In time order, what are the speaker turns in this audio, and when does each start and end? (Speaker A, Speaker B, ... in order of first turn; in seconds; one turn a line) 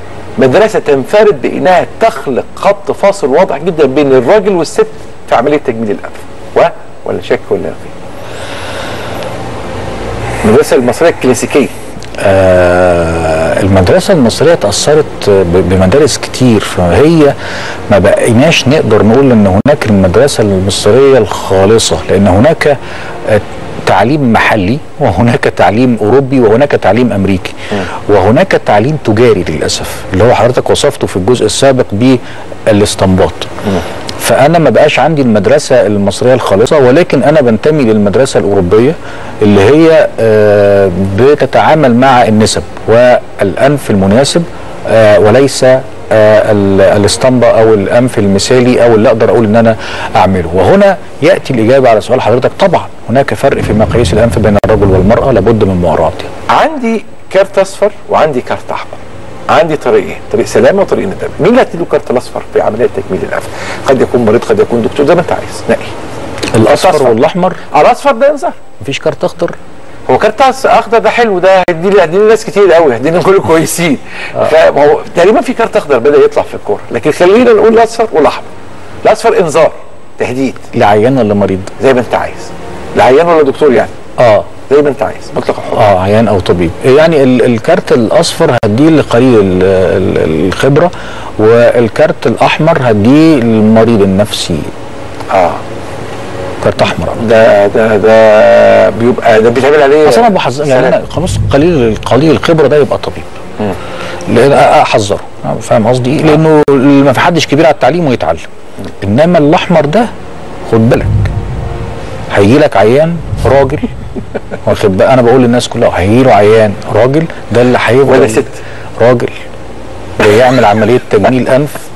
Speaker A: 0.4-7.9
Speaker A: 10.4-11.7
Speaker B: 12.2-17.3
Speaker B: 17.9-27.6
Speaker B: 28.1-33.5
Speaker B: 34.2-56.3
Speaker A: 56.5-65.9
Speaker B: 66.5-67.6
Speaker A: 66.6-67.2
Speaker A: 67.7-68.6
Speaker B: 68.8-69.6
Speaker A: 70.1-78.5
Speaker A: 79.0-80.7
Speaker B: 80.7-81.7
Speaker A: 81.8-83.9
Speaker B: 84.2-84.5
Speaker A: 84.7-85.9
Speaker B: 85.7-94.7
Speaker A: 95.3-95.6
Speaker B: 96.6-97.2
Speaker A: 97.2-101.0
Speaker B: 100.0-103.3
Speaker B: 104.3-108.4
Speaker B: 109.0-110.1
Speaker B: 110.7-111.3
Speaker B: 112.3-113.9
Speaker B: 114.6-118.5
Speaker A: 118.1-118.6
Speaker B: 119.0-119.3
Speaker B: 120.2-121.8